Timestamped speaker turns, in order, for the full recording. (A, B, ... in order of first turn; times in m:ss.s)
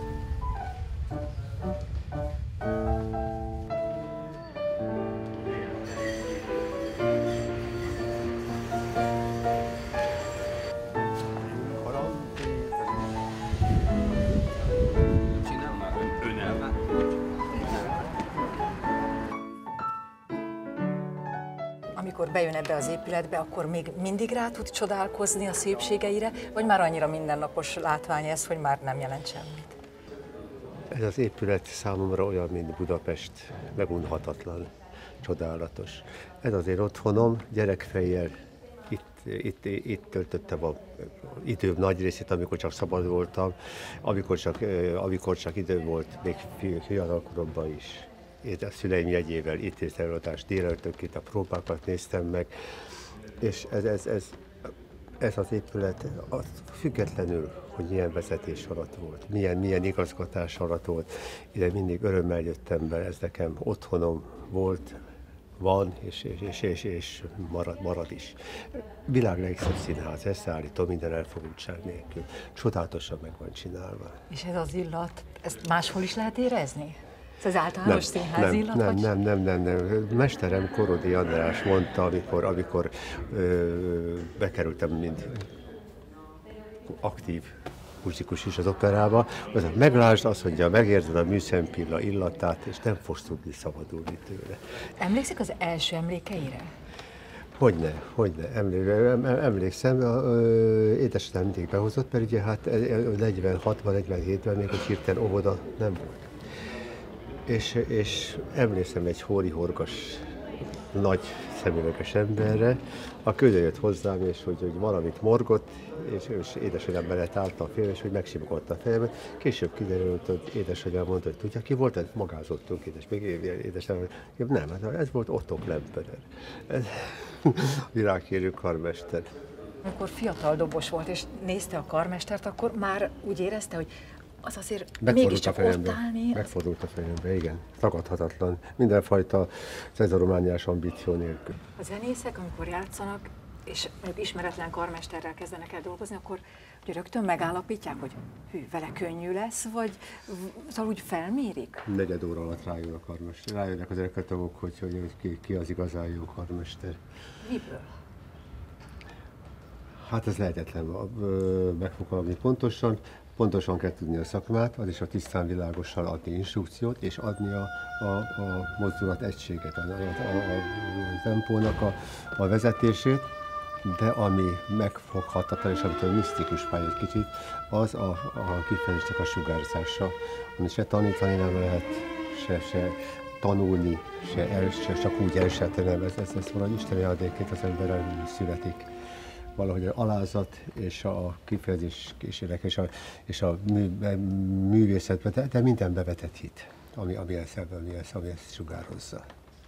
0:11.5-0:12.9 A
0:22.0-0:29.8 B
0:30.9-0:38.3 A
0:38.9-0:52.5 A
0:53.4-0:54.4 A
0:55.2-1:05.0 A
1:05.6-1:08.4 A
1:09.0-1:14.2 A
1:14.3-1:19.1 B
1:17.8-1:25.5 A
1:26.9-1:34.6 A
1:35.0-1:36.7 B
1:37.6-1:46.3 A
1:47.5-1:50.3 A
1:50.9-2:09.3 A
2:09.8-2:13.9 B
2:14.4-2:16.5 B
2:15.0-2:21.6 A
2:21.8-2:31.8 B
2:31.9-2:37.0 A
2:37.4-2:37.9 B
2:40.0-2:53.3 A
2:53.8-3:08.9 A
3:09.6-3:19.2 A